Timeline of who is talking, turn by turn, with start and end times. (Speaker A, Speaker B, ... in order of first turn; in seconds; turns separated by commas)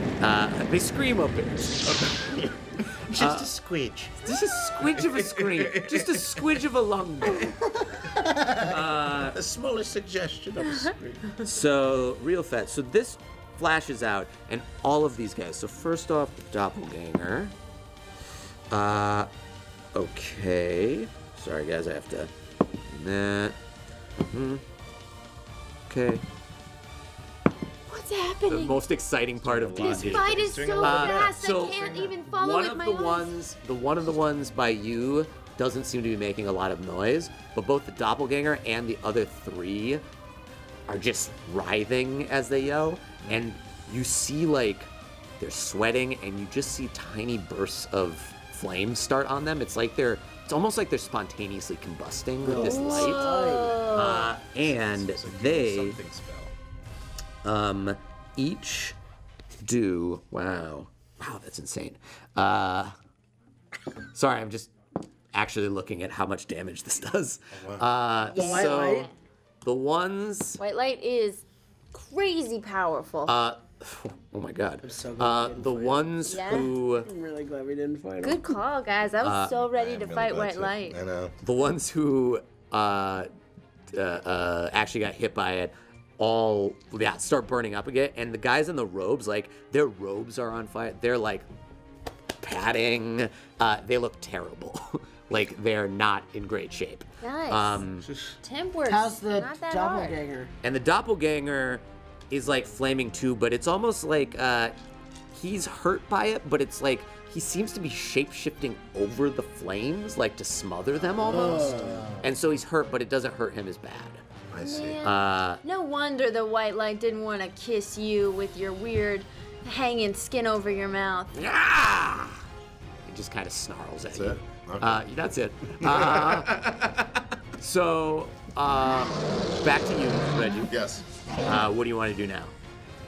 Speaker A: 0.2-1.9, Speaker B: 1.9-4.2, Speaker A: 3.1-3.5, Speaker A: 4.2-7.6, Speaker B: 4.8-6.4, Speaker C: 7.4-8.2, Speaker B: 8.2-11.3, Speaker A: 8.6-9.4, Speaker D: 10.7-10.9, Speaker A: 11.4-17.5, Speaker A: 18.7-19.3, Speaker A: 19.9-22.3, Speaker A: 22.9-23.6, Speaker A: 24.3-24.6, Speaker A: 25.9-26.2, Speaker D: 27.9-28.8, Speaker A: 28.5-40.0, Speaker B: 29.4-31.4, Speaker D: 29.8-33.4, Speaker A: 40.9-44.9, Speaker A: 45.4-53.3, Speaker C: 52.4-53.8, Speaker D: 52.5-54.3, Speaker A: 53.9-56.0, Speaker B: 54.5-56.5, Speaker A: 57.4-58.9, Speaker A: 59.6-62.9, Speaker A: 64.1-64.7, Speaker A: 65.3-69.1, Speaker B: 67.5-67.9, Speaker C: 68.3-69.1, Speaker D: 68.3-69.1, Speaker A: 69.6-70.6, Speaker D: 70.6-73.3, Speaker A: 73.3-77.1, Speaker C: 74.8-78.5, Speaker D: 76.3-76.7, Speaker D: 78.2-81.0, Speaker A: 79.2-79.5, Speaker B: 79.7-81.3, Speaker A: 81.4-83.3, Speaker A: 83.9-91.4, Speaker A: 92.4-98.0, Speaker D: 97.2-97.8, Speaker B: 98.0-98.4, Speaker D: 98.4-100.2, Speaker C: 98.8-100.5, Speaker A: 100.6-104.7, Speaker A: 105.3-114.2, Speaker C: 111.2-112.2, Speaker B: 111.2-112.1, Speaker B: 114.5-115.0, Speaker D: 114.6-121.5, Speaker A: 115.0-115.6, Speaker A: 121.3-122.4, Speaker A: 123.1-126.5, Speaker B: 124.1-125.0, Speaker B: 125.8-127.3, Speaker A: 127.6-130.7, Speaker B: 130.7-131.0, Speaker A: 131.4-132.5